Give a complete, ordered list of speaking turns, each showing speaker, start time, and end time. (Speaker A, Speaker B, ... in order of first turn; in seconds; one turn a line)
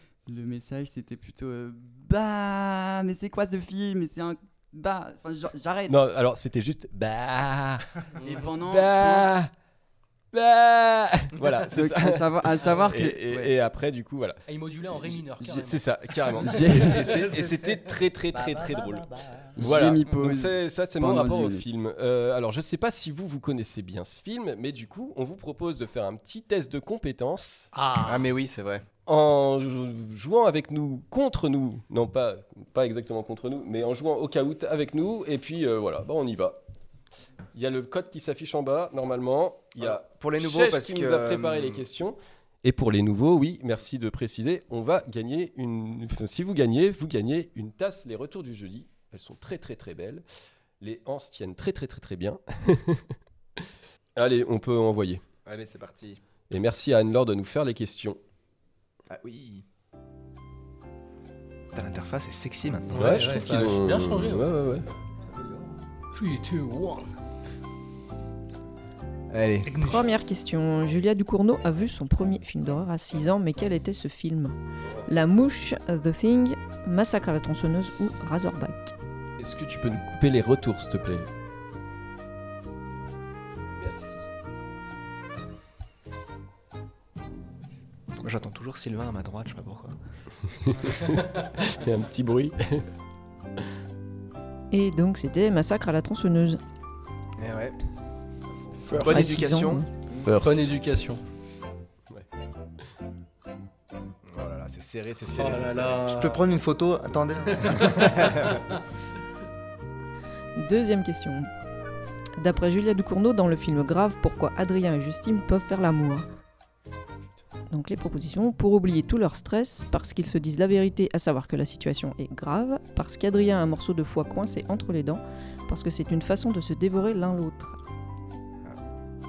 Speaker A: 0.3-6.0
Speaker B: 5.9-7.9
Speaker C: 8.2-8.6
Speaker A: 8.2-9.4
Speaker B: 8.6-9.5
Speaker B: 10.3-14.4
Speaker A: 11.7-13.5
Speaker C: 12.6-13.0
Speaker C: 14.5-17.8
Speaker B: 15.0-27.7
Speaker A: 16.4-17.3
Speaker D: 18.3-19.5
Speaker A: 19.6-21.6
Speaker C: 27.7-28.2
Speaker E: 28.0-28.8
Speaker B: 29.1-36.6
Speaker B: 37.5-50.2
Speaker E: 39.8-41.8
Speaker B: 50.8-55.2
Speaker E: 55.5-56.2
Speaker B: 56.5-58.2
Speaker E: 59.1-59.6
Speaker E: 61.7-63.3
Speaker C: 62.9-64.5
Speaker B: 62.9-64.9
Speaker C: 66.1-67.1
Speaker E: 69.3-69.7
Speaker C: 69.6-70.2
Speaker F: 69.8-74.5
Speaker B: 74.8-75.1
Speaker F: 75.1-78.9
Speaker B: 79.4-81.3
Speaker B: 83.8-84.2
Speaker E: 88.2-89.9
Speaker B: 90.5-92.8
Speaker C: 90.9-91.5
Speaker F: 94.7-96.6
Speaker E: 97.4-97.8
Speaker B: 98.8-99.4
Speaker E: 98.9-99.8
Speaker F: 99.0-99.8
Speaker B: 100.2-100.8
Speaker C: 100.4-101.2
Speaker E: 104.2-106.1
Speaker C: 105.3-106.4
Speaker D: 106.0-108.1
Speaker C: 107.5-108.8
Speaker E: 107.8-108.6
Speaker F: 110.6-111.5
Speaker F: 112.4-116.2
Speaker F: 117.7-127.8